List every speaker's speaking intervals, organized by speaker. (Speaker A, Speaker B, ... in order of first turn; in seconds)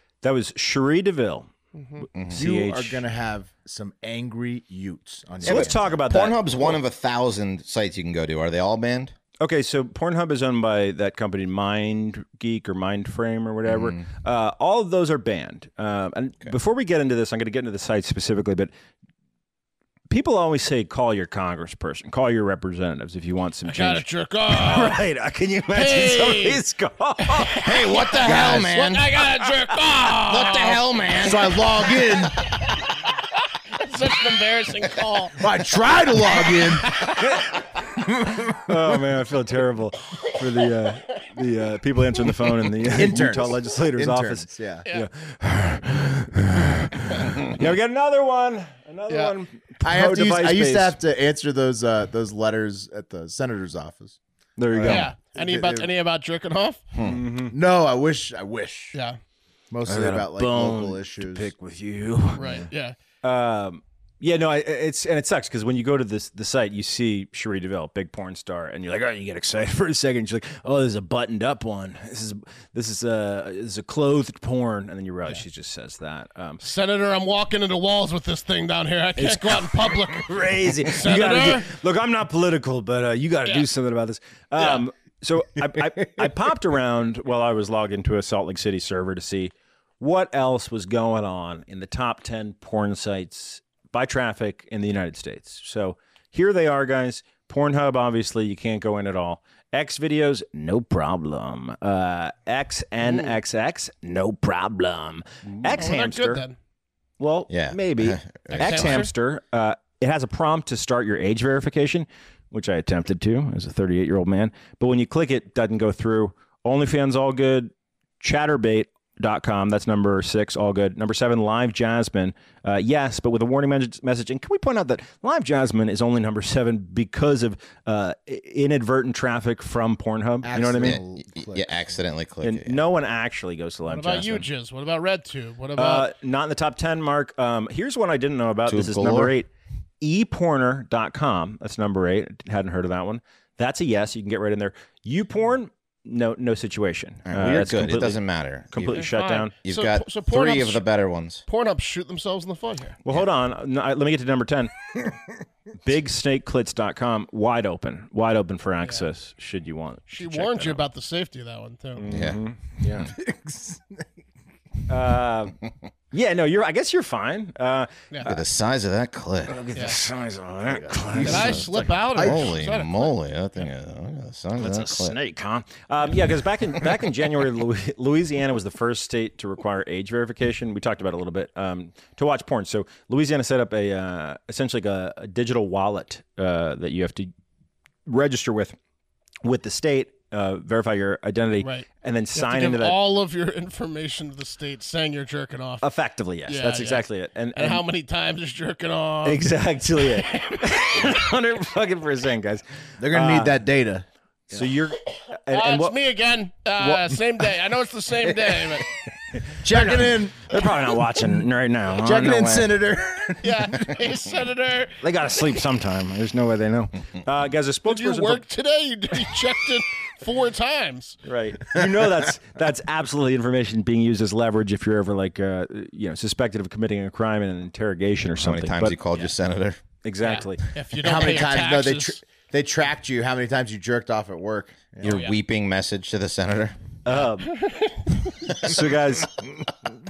Speaker A: 0.2-1.5, 2.3-3.0, 5.4-6.8, 9.4-18.7, 20.1-27.6, 37.2-37.5, 38.6-51.0, 54.6-55.1, 57.0-57.5, 59.8-62.4, 63.2-76.6, 79.2-106.4, 107.2-131.0, 132.4-134.4, 135.8-139.5, 140.0-148.2, 148.7-149.5, 153.0-154.7, 155.8-160.8, 161.9-163.1, 164.9-165.6, 166.1-168.1, 169.5-171.7, 174.6-187.3, 188.1-188.8, 189.4-193.0, 195.8-197.8, 199.2-203.6, 204.5-205.9, 206.8-207.2, 209.7-212.7, 215.0-218.4, 221.2-228.9, 230.0-230.6, 237.1-237.5, 238.6-239.3
Speaker B: 1.7-2.0, 23.7-25.0, 25.7-26.6, 27.3-30.8, 33.8-35.4, 36.9-37.3, 49.1-49.4, 54.9-56.8, 62.4-63.0, 76.6-80.3, 80.9-81.7, 84.6-84.8, 103.0-103.3, 105.8-106.5, 108.6-109.1, 133.8-136.1, 148.8-150.8, 151.5-153.0, 160.1-162.1, 168.1-168.4, 171.2-173.1, 191.6-195.8, 196.5-199.5, 200.3-200.6, 205.5-208.8, 213.4-215.0, 217.9-221.2, 230.2-232.2, 235.0-235.4, 237.5-238.1
Speaker C: 2.1-2.4, 5.4-9.1, 13.7-14.0, 27.6-29.1, 30.2-31.7, 56.9-57.2, 107.5-109.0, 130.8-132.8, 138.7-139.3, 147.3-149.1, 149.6-151.4, 162.1-162.4, 168.2-169.6, 171.2-171.6, 172.1-175.2, 228.3-229.8, 235.0-236.8
Speaker D: 2.3-6.0, 31.2-32.5, 35.4-37.0, 38.2-38.6, 42.9-44.8, 49.8-54.2, 54.7-55.9, 57.5-59.0, 59.7-61.5, 62.4-62.6, 130.4-132.0, 163.1-164.0, 170.8-172.5, 203.0-204.7, 209.6-210.7, 212.0-213.6, 231.0-235.2